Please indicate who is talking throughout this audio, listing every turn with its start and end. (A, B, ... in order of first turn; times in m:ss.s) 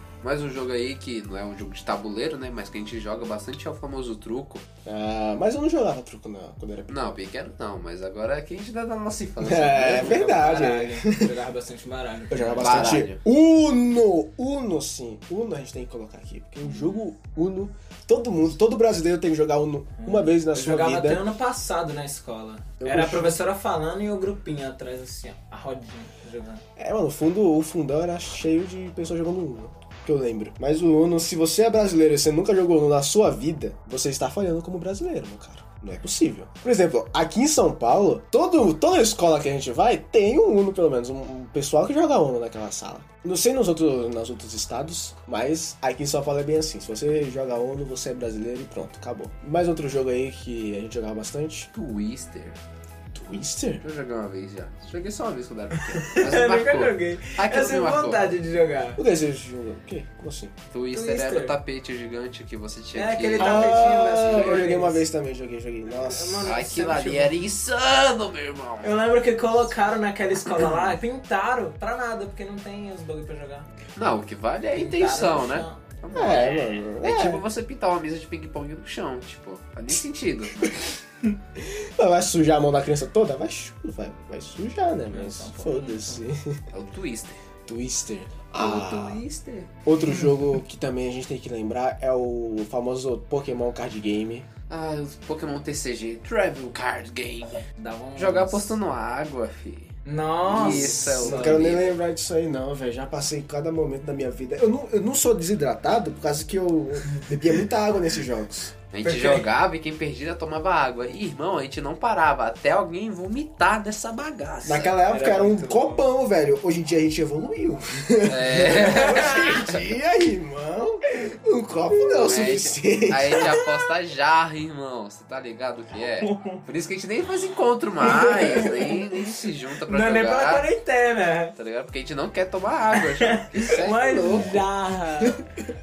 0:00.2-0:04.6 A
0:04.8-0:06.9 B
0:06.9-0:10.2 A
0:09.4-0:11.3 B
0:09.9-0:13.0 C
0:12.3-0:21.3 B
0:12.6-0:13.2 A
0:20.0-0:26.6 C
0:22.8-0:23.4 B
0:26.8-0:51.7 B
0:51.7-0:52.6 A
0:53.1-0:53.8 B
0:53.8-0:58.3 A
0:55.9-0:59.0 C
0:59.0-1:00.5 B
1:00.7-1:04.7 A
1:00.9-1:01.6 C
1:02.9-1:05.0 C
1:03.4-1:06.6 B
1:05.9-1:07.3 C
1:06.4-1:09.0 A
1:08.8-1:13.7 C
1:10.4-1:10.8 A
1:14.0-1:20.8 A
1:14.7-1:15.8 C
1:16.1-1:17.4 B
1:21.5-1:26.6 B
1:25.1-1:26.2 C
1:26.7-1:27.4 A
1:27.7-1:29.2 B
1:28.6-1:29.7 A
1:29.8-1:34.5 B
1:34.7-1:37.6 A
1:37.8-1:38.8 C
1:38.2-1:41.9 A
1:40.0-1:41.6 C
1:40.6-1:48.7 B
1:48.9-1:54.9 A
1:49.0-1:49.4 C
1:54.6-2:03.6 B
1:55.1-1:56.0 C
1:58.2-1:59.9 A
1:59.1-1:59.5 C
2:02.3-2:10.7 A
2:05.9-2:06.6 C
2:08.0-2:09.2 C
2:09.9-2:11.5 C
2:11.6-2:14.6 A
2:13.0-2:15.4 C